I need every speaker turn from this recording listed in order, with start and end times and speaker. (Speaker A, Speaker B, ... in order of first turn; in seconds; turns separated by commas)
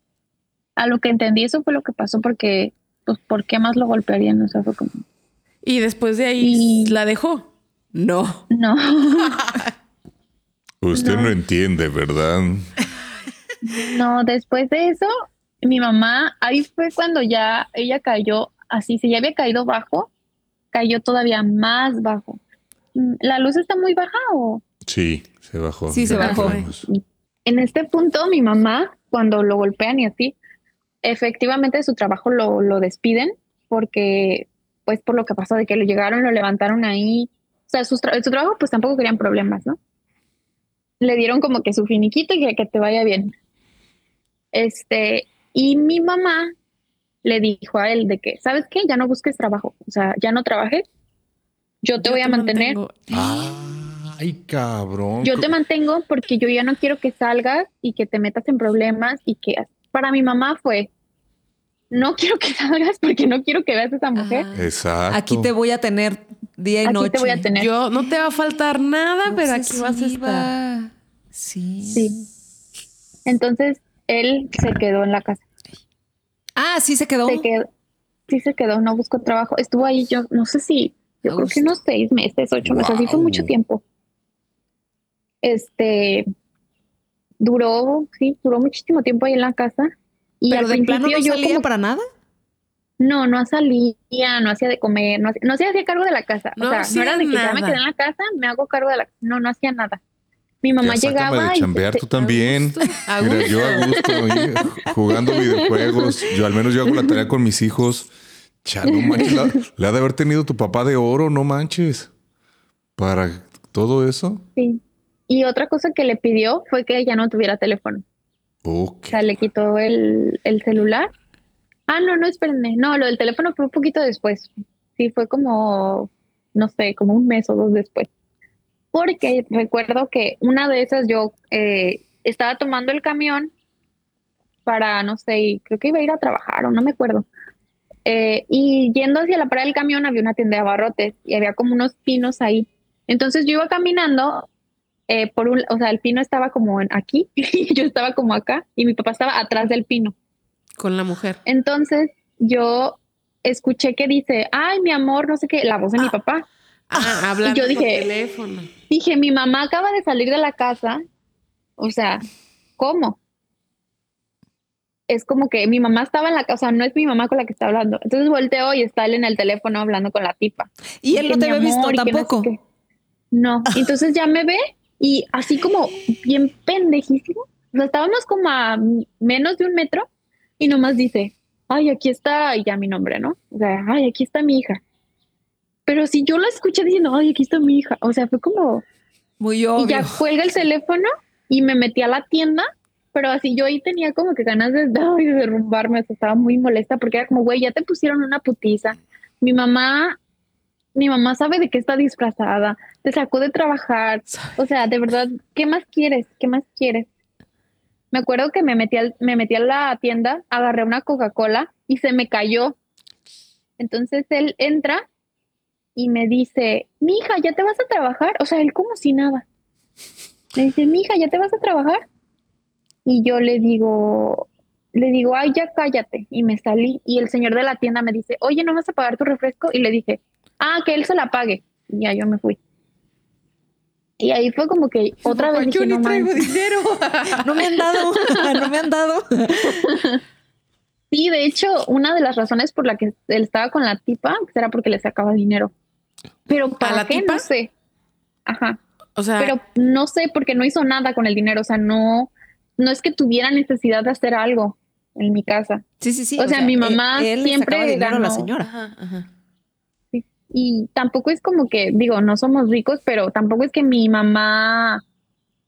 Speaker A: 0.8-5.0, Speaker B: 5.6-8.4, Speaker A: 6.4-7.0, Speaker A: 8.5-9.4, Speaker B: 9.4-9.7, Speaker C: 10.8-12.7, Speaker A: 10.9-11.3, Speaker A: 13.6-15.1, Speaker A: 15.6-20.1, Speaker A: 20.7-22.4, Speaker A: 22.9-24.6, Speaker C: 24.9-26.9, Speaker D: 25.9-26.6, Speaker B: 26.2-26.7, Speaker A: 26.9-30.4, Speaker A: 31.0-39.8, Speaker A: 41.0-43.3, Speaker A: 44.5-46.5, Speaker A: 47.2-50.9, Speaker A: 51.8-52.8, Speaker B: 52.0-53.0, Speaker D: 53.1-53.5, Speaker C: 53.1-55.5, Speaker A: 55.2-60.9, Speaker A: 61.9-64.4, Speaker D: 64.2-67.5, Speaker C: 64.5-65.5, Speaker A: 66.8-67.7, Speaker B: 67.5-70.5, Speaker D: 69.2-72.2, Speaker A: 71.9-72.2, Speaker A: 73.2-75.4, Speaker D: 76.5-77.5, Speaker A: 77.2-77.7, Speaker A: 78.3-83.8, Speaker D: 81.3-81.6, Speaker C: 82.6-83.5, Speaker A: 85.4-86.2, Speaker A: 87.4-91.7, Speaker D: 90.5-92.0, Speaker A: 93.0-100.0, Speaker B: 96.6-97.8, Speaker A: 100.6-102.1, Speaker C: 100.8-108.1, Speaker B: 102.2-104.1, Speaker A: 104.0-104.3, Speaker A: 105.3-106.1, Speaker C: 108.6-112.1, Speaker A: 108.9-109.5, Speaker C: 113.0-114.4, Speaker A: 114.5-118.0, Speaker C: 118.6-119.2, Speaker A: 119.1-121.1, Speaker A: 121.9-128.1, Speaker A: 128.9-133.5, Speaker A: 134.7-137.2, Speaker A: 138.0-144.5, Speaker A: 145.1-150.1, Speaker B: 150.8-151.4, Speaker A: 151.4-156.4, Speaker B: 156.9-158.7, Speaker A: 157.4-158.1, Speaker A: 158.9-161.0, Speaker A: 161.8-162.2, Speaker A: 162.8-163.2, Speaker A: 165.1-172.6, Speaker D: 171.0-172.5, Speaker A: 173.3-180.1, Speaker A: 180.6-184.8, Speaker A: 185.8-188.8, Speaker D: 189.4-190.2, Speaker A: 189.8-200.2, Speaker A: 200.9-207.1, Speaker A: 208.1-212.8, Speaker A: 213.8-215.0, Speaker A: 215.9-219.4, Speaker A: 220.5-222.0, Speaker A: 223.0-232.6, Speaker A: 234.2-236.5, Speaker B: 235.2-237.9, Speaker D: 237.3-239.9, Speaker A: 239.7-240.2, Speaker A: 241.1-245.7, Speaker A: 246.5-247.7, Speaker B: 246.8-247.4, Speaker A: 248.4-248.8, Speaker B: 249.2-249.5, Speaker A: 249.4-255.8, Speaker D: 256.0-258.7, Speaker A: 256.4-258.5, Speaker B: 258.6-259.2, Speaker A: 260.1-265.0